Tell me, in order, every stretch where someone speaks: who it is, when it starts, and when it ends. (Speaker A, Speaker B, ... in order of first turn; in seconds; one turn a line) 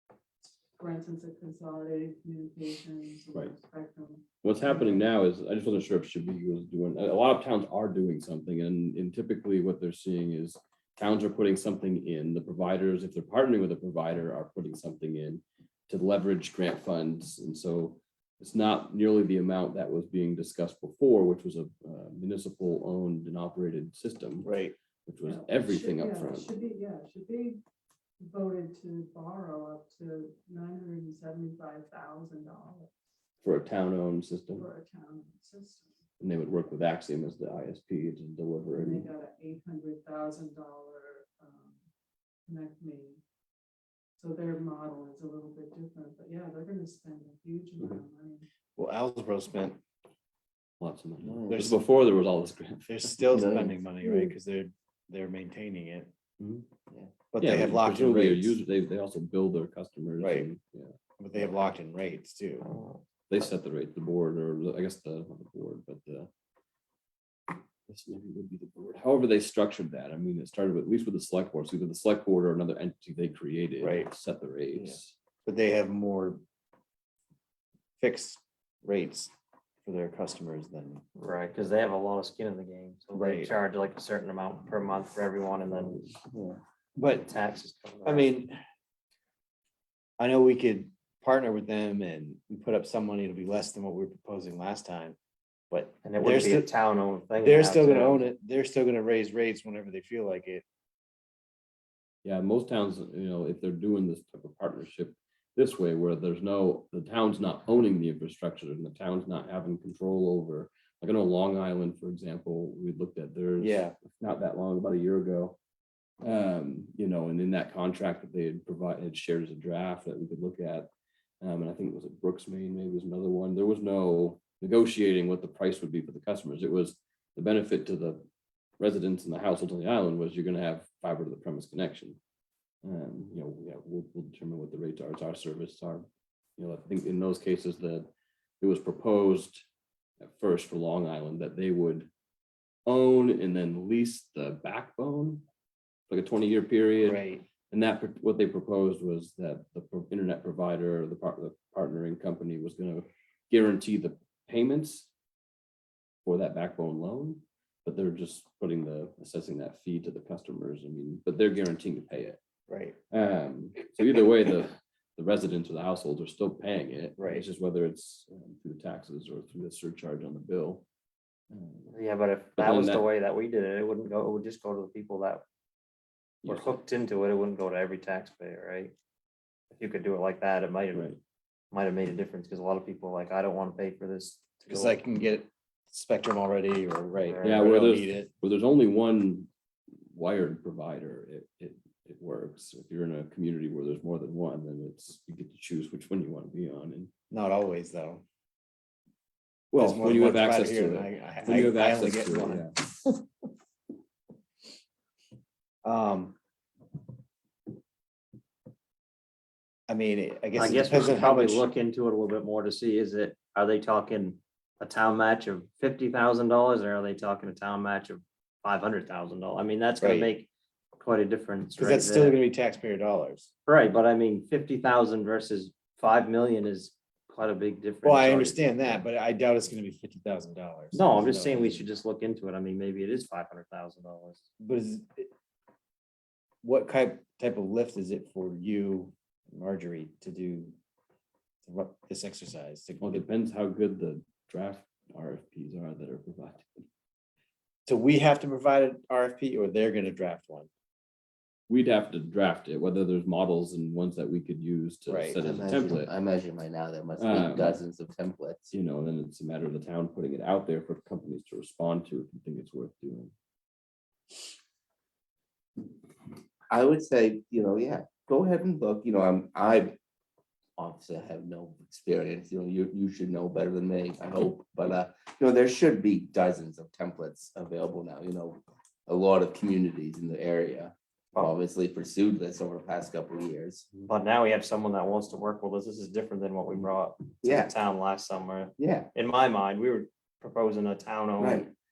Speaker A: 0.7-5.1
Speaker B: 4.4-24.5
Speaker C: 24.4-24.8
Speaker B: 25.1-26.5
Speaker A: 25.2-27.6
Speaker A: 28.2-32.9
Speaker B: 33.4-34.7
Speaker A: 34.5-36.0
Speaker B: 36.2-39.1
Speaker A: 38.8-41.8
Speaker A: 42.5-43.2
Speaker A: 44.2-48.5
Speaker C: 48.8-49.8
Speaker B: 50.8-53.2
Speaker D: 51.2-51.5
Speaker C: 51.5-51.8
Speaker C: 52.9-56.1
Speaker D: 53.3-53.7
Speaker B: 56.4-56.6
Speaker C: 57.3-58.6
Speaker B: 57.4-60.9
Speaker C: 60.2-60.5
Speaker C: 61.2-62.7
Speaker E: 62.6-63.0
Speaker B: 63.3-66.3
Speaker B: 67.9-75.2
Speaker C: 73.8-74.1
Speaker C: 75.4-76.4
Speaker C: 78.0-79.3
Speaker C: 79.8-81.0
Speaker E: 81.2-86.1
Speaker C: 83.1-83.5
Speaker C: 86.3-87.2
Speaker E: 87.1-88.3
Speaker C: 88.0-88.6
Speaker C: 90.2-95.2
Speaker C: 95.7-96.7
Speaker E: 96.0-98.2
Speaker C: 97.4-100.6
Speaker B: 102.2-115.6
Speaker C: 113.6-114.0
Speaker B: 116.2-120.9
Speaker B: 121.4-128.2
Speaker B: 128.8-132.2
Speaker B: 132.8-136.1
Speaker B: 136.6-138.1
Speaker B: 138.6-139.6
Speaker B: 140.2-142.1
Speaker B: 142.8-145.4
Speaker B: 146.1-155.1
Speaker C: 147.0-147.4
Speaker B: 156.2-162.4
Speaker C: 162.7-163.0
Speaker B: 163.1-170.8
Speaker C: 167.2-167.4
Speaker B: 171.5-171.9
Speaker E: 171.9-175.4
Speaker B: 172.6-173.1
Speaker B: 176.4-176.8
Speaker E: 176.4-178.9
Speaker E: 179.7-181.2
Speaker B: 180.9-181.2
Speaker E: 181.7-185.0
Speaker C: 184.7-188.3
Speaker E: 187.2-187.6
Speaker B: 187.4-189.5
Speaker B: 190.1-197.1
Speaker C: 197.3-198.2
Speaker B: 199.7-202.7
Speaker C: 199.8-203.2
Speaker C: 205.8-206.3
Speaker C: 209.9-211.7
Speaker E: 210.6-222.4
Speaker C: 220.0-220.3
Speaker C: 221.8-223.5
Speaker E: 223.7-229.0
Speaker C: 228.0-231.9
Speaker E: 230.9-234.5
Speaker C: 234.6-235.3
Speaker C: 236.6-240.7
Speaker C: 241.6-243.2
Speaker B: 243.0-246.8
Speaker C: 247.8-250.7
Speaker B: 251.7-256.1
Speaker C: 255.1-255.4
Speaker D: 255.4-258.7
Speaker B: 257.1-257.8
Speaker B: 258.7-263.3
Speaker D: 266.7-270.0
Speaker D: 270.8-283.9
Speaker E: 284.0-291.7
Speaker D: 287.4-287.7
Speaker D: 288.8-289.1
Speaker D: 291.4-291.6